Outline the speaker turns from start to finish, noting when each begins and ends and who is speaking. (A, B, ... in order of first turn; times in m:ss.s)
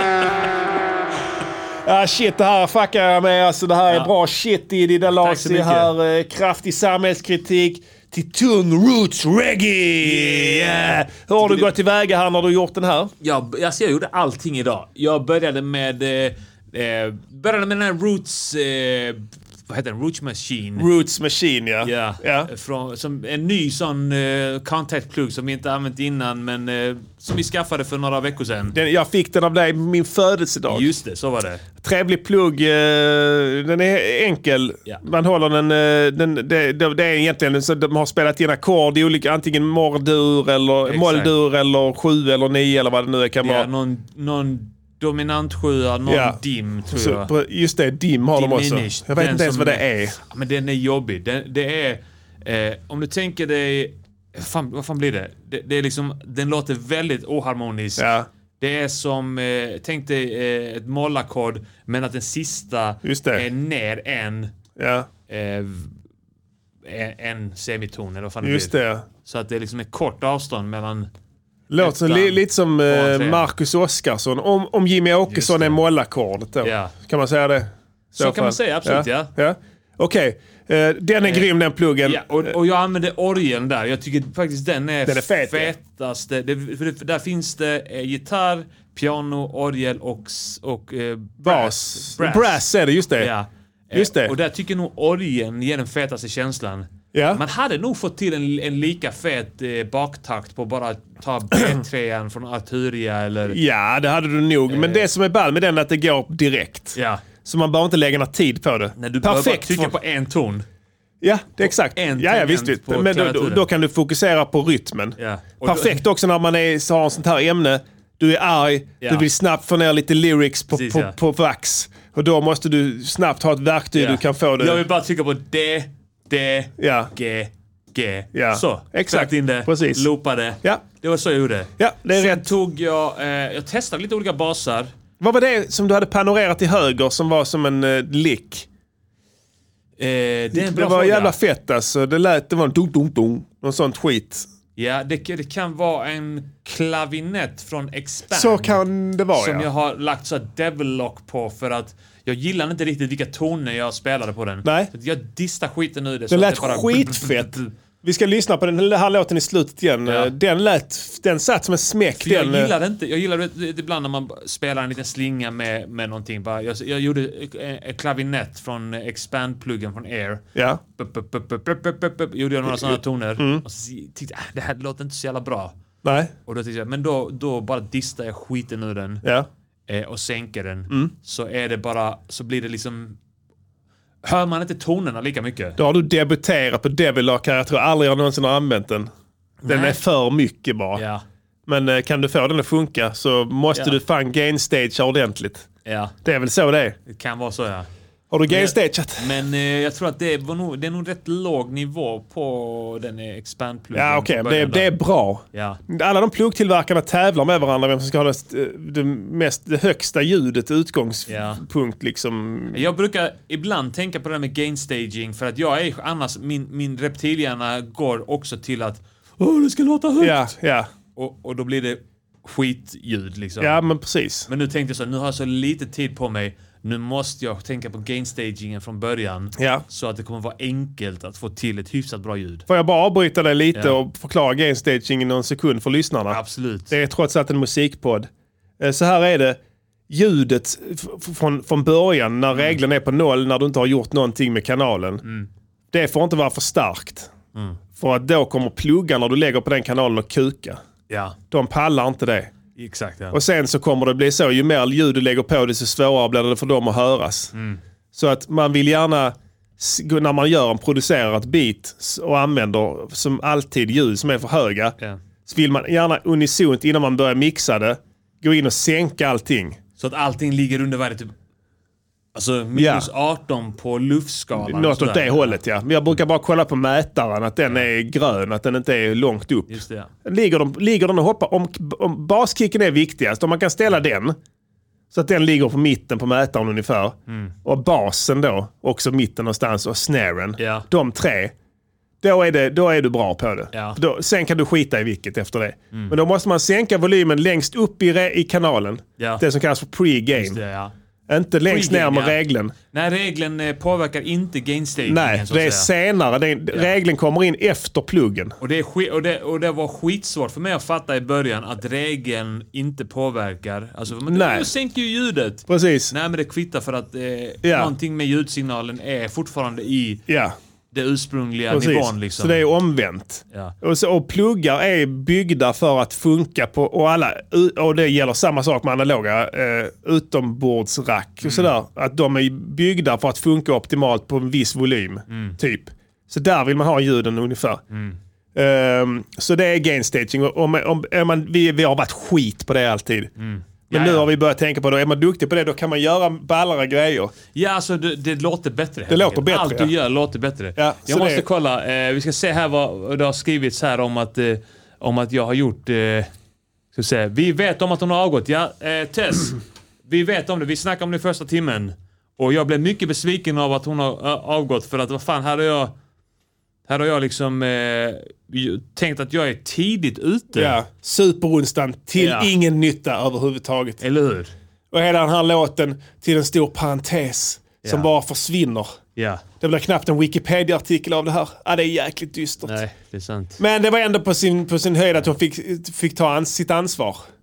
0:01.8-0:13.1 A
0:05.1-0:05.9 B
0:10.0-0:11.7 B
0:13.2-0:20.9 B
0:20.8-0:22.5 A
0:21.8-0:28.8 B
0:28.7-0:31.0 A
0:30.7-0:31.6 B
0:31.8-0:43.7 A
0:40.8-0:41.3 B
0:43.4-0:47.3 B
0:46.1-0:50.2 A
0:48.3-0:58.1 B
0:58.0-0:58.3 A
0:58.6-1:04.5 B
1:03.0-1:03.5 A
1:04.8-1:05.1 A
1:05.3-1:05.9 B
1:06.8-1:11.1 B
1:08.4-1:09.0 A
1:11.7-1:22.5 A
1:11.8-1:13.5 B
1:15.3-1:15.8 B
1:16.6-1:16.9 B
1:18.1-1:19.3 B
1:21.2-1:21.5 B
1:22.0-1:32.6 B
1:25.0-1:25.7 A
1:31.4-1:33.3 A
1:33.2-1:43.6 B
1:33.9-1:34.4 A
1:37.1-1:37.4 A
1:43.5-1:50.0 A
1:44.7-1:45.1 B
1:47.0-1:47.2 B
1:49.0-1:50.6 B
1:51.2-2:04.8 A
1:51.6-1:53.7 B
1:55.2-1:56.0 B
1:59.0-1:59.3 B
2:00.7-2:01.2 B
2:04.0-2:14.9 B
2:06.8-2:07.1 A
2:08.3-2:10.1 A
2:11.8-2:12.5 A
2:15.2-2:18.7 A
2:20.0-2:21.4 B
2:20.5-2:24.5 A
2:24.8-2:28.8 B
2:28.3-2:29.7 A
2:29.4-2:37.7 B
2:34.6-2:34.9 A
2:36.3-2:42.7 A
2:40.1-2:40.3 B
2:42.2-2:50.4 B
2:50.6-2:50.8 A
2:51.0-2:55.7 B
2:52.7-2:53.6 A
2:56.0-2:56.3 A
2:56.5-2:59.2 B
2:59.9-3:03.2 B
3:04.2-3:05.8 B
3:05.8-3:09.1 A
3:09.6-3:10.0 B
3:09.7-3:11.0 A
3:11.0-3:11.2 B
3:11.7-3:15.7 A
3:15.8-3:16.1 B
3:16.2-3:17.0 A
3:17.1-3:17.9 B
3:18.3-3:19.4 A
3:18.5-3:24.9 B
3:23.9-3:32.8 A
3:25.5-3:25.8 B
3:31.3-3:31.6 B
3:32.7-3:40.5 B
3:40.2-3:40.9 A
3:41.2-3:43.8 B
3:43.6-3:44.5 A
3:44.5-3:52.6 B
3:49.6-3:49.8 A
3:52.7-3:58.3 A
3:56.3-3:56.9 B
3:58.8-4:05.2 A
4:02.5-4:02.8 B
4:05.2-4:05.5 B
4:05.9-4:07.3 A
4:08.0-4:10.8 A
4:11.1-4:11.4 B
4:11.5-4:12.5 A
4:12.8-4:13.4 B
4:13.3-4:17.5 A
4:17.5-4:17.8 B
4:18.1-4:25.0 A
4:25.5-4:29.8 A
4:30.0-4:31.3 B
4:32.4-4:35.6 B
4:32.7-4:33.1 A
4:34.6-4:44.4 A
4:39.7-4:40.1 B
4:45.1-4:51.5 A
4:47.3-4:47.5 B
4:50.6-4:50.9 B
4:52.2-5:00.6 A
4:53.7-4:54.0 B
5:00.4-5:00.9 B
5:01.3-5:02.7 A
5:01.7-5:02.4 B
5:02.9-5:05.9 B
5:05.0-5:08.6 A
5:08.6-5:20.2 B
5:14.3-5:14.7 A
5:15.7-5:16.1 A
5:17.6-5:17.9 A
5:20.3-5:20.6 A
5:20.9-5:22.6 B
5:21.7-5:37.8 A
5:31.4-5:31.7 B
5:35.3-5:35.6 B
5:37.9-5:38.2 B
5:38.6-5:43.3 A
5:43.4-5:44.3 B
5:43.9-5:47.3 A
5:47.5-5:56.3 B
5:49.1-5:49.9 A
5:50.8-5:51.5 A
5:56.9-6:05.9 B
6:06.9-6:10.8 B
6:10.5-6:14.0 A
6:12.2-6:12.5 B
6:14.0-6:14.5 B
6:14.9-6:19.0 A
6:17.8-6:18.1 B
6:19.2-6:19.4 B
6:19.6-6:22.8 A
6:22.6-6:23.6 B
6:23.6-6:27.2 A